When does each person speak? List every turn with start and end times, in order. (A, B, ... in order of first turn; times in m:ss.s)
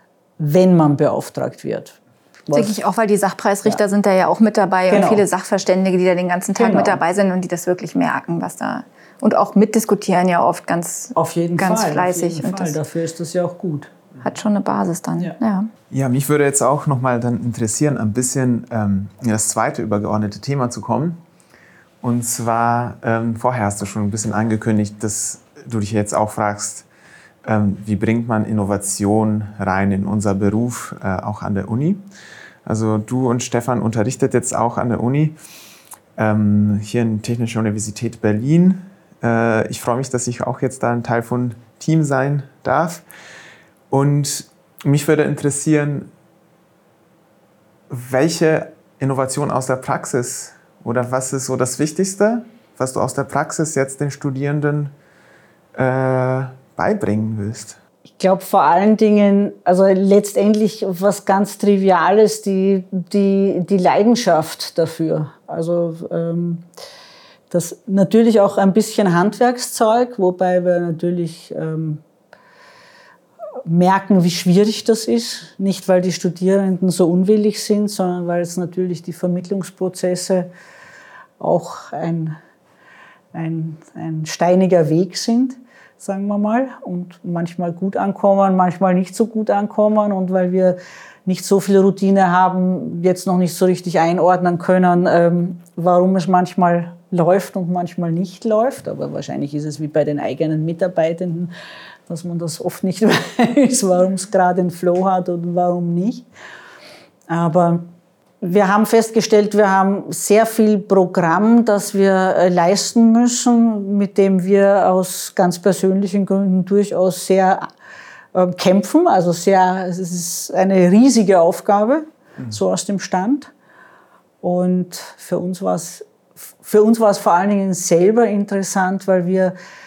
0:00.4-0:02.8 A
0:02.5-0:12.8 B
0:04.9-0:05.2 A
0:06.6-0:07.0 A
0:11.1-0:13.9 A
0:14.2-0:15.7 B
0:15.9-0:21.2 C
0:22.0-0:26.8 C
0:27.4-0:32.0 C
0:32.6-0:35.4 C
0:36.2-0:43.0 C
0:43.9-0:46.1 C
0:47.9-0:54.9 C
0:55.7-0:57.8 C
0:58.2-1:06.6 A
1:07.5-1:12.0 A
1:13.6-1:20.5 A
1:21.4-1:22.4 A
1:23.3-1:41.5 A
1:42.1-1:46.2 A
1:47.3-1:47.9 A
1:48.4-1:57.7 A
1:58.3-2:03.5 A
2:04.4-2:06.0 A
2:06.6-2:09.5 A